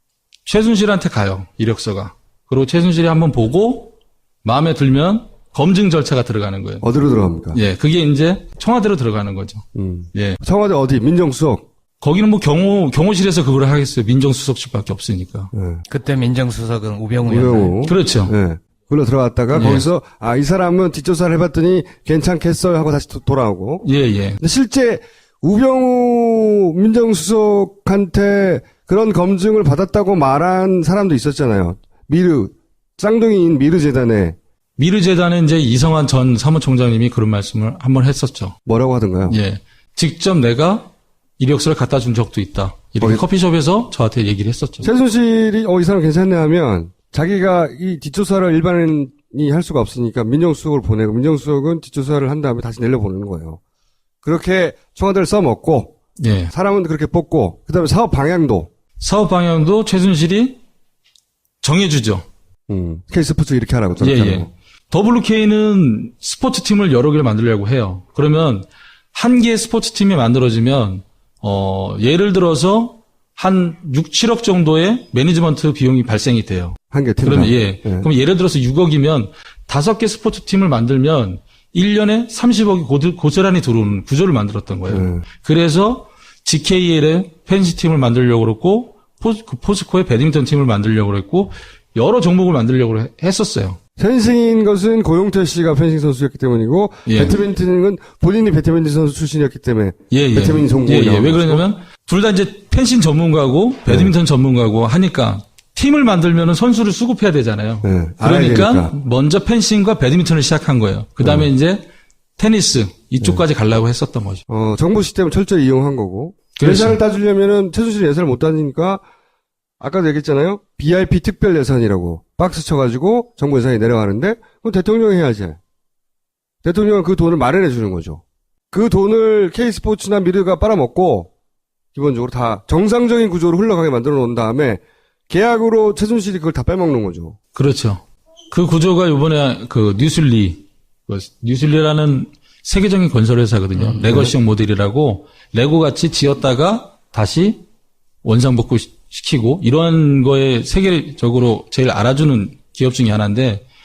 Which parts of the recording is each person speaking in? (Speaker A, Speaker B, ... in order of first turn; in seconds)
Speaker A: 0.5-6.8, 7.5-10.4, 12.0-15.5, 17.9-18.3, 19.5-19.9, 23.8-24.4, 34.8-38.6, 39.3-44.9, 56.2-56.5, 59.0-60.6, 61.6-62.3, 64.0-93.8, 97.1-97.4, 100.1-111.8, 112.4-114.5, 116.6-117.0, 137.6-147.6, 148.2-153.7
Speaker B: 6.8-7.6, 9.8-11.7, 15.5-15.8, 17.3-23.9, 24.4-34.4, 38.7-39.4, 44.8-53.6, 54.2-56.0, 56.5-58.7, 62.7-64.5, 76.9-78.1, 84.9-85.2, 94.0-101.6, 103.9-104.1, 107.8-108.9, 111.2-111.5, 114.5-119.0, 119.8-125.6, 126.6-131.3, 131.9-137.4, 144.0-144.3
Speaker C: 15.9-17.8, 143.8-144.1